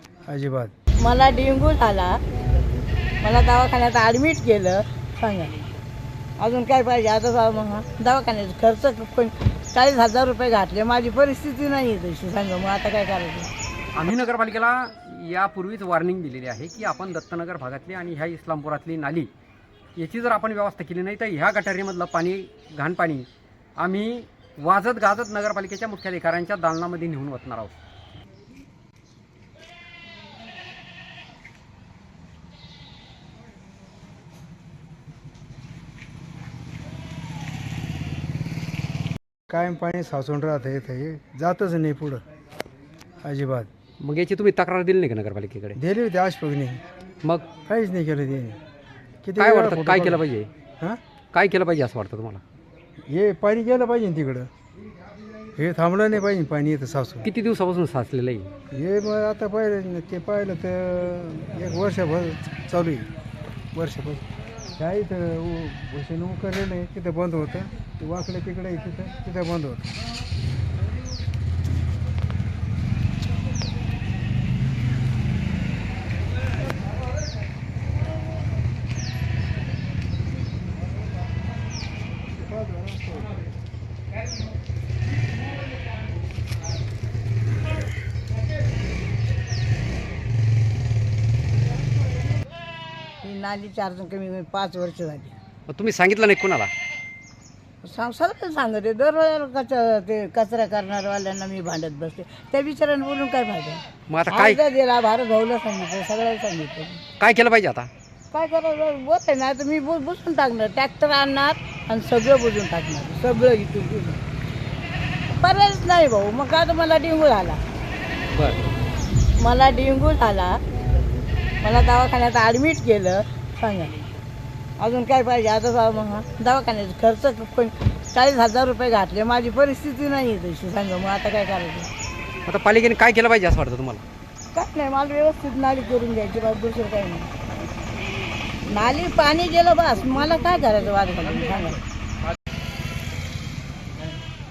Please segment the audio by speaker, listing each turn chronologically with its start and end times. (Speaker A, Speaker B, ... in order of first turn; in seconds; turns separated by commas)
Speaker A: 0.3-0.7, Speaker B: 1.0-2.2, Speaker B: 3.2-5.5, Speaker B: 6.4-13.5, Speaker C: 13.9-19.3, Speaker C: 20.0-23.3, Speaker C: 23.8-27.7, Speaker A: 39.5-42.2, Speaker A: 43.2-43.7, Speaker C: 44.0-45.8, Speaker A: 45.8-46.8, Speaker C: 47.2-47.5, Speaker A: 47.7-48.6, Speaker A: 49.2-50.2, Speaker C: 49.4-50.5, Speaker C: 51.3-52.4, Speaker A: 53.1-54.5, Speaker A: 55.6-57.3, Speaker C: 57.2-58.5, Speaker A: 58.7-63.1, Speaker A: 63.7-64.2, Speaker A: 64.8-69.9, Speaker A: 82.4-83.3, Speaker B: 93.2-95.4, Speaker C: 95.7-96.7, Speaker B: 97.8-107.0, Speaker C: 104.1-104.6, Speaker C: 107.2-107.9, Speaker B: 108.3-114.2, Speaker B: 115.3-117.6, Speaker C: 118.3-118.6, Speaker B: 119.4-120.6, Speaker B: 121.6-123.9, Speaker B: 124.8-131.9, Speaker C: 132.5-134.0, Speaker B: 134.5-137.3, Speaker B: 138.7-141.8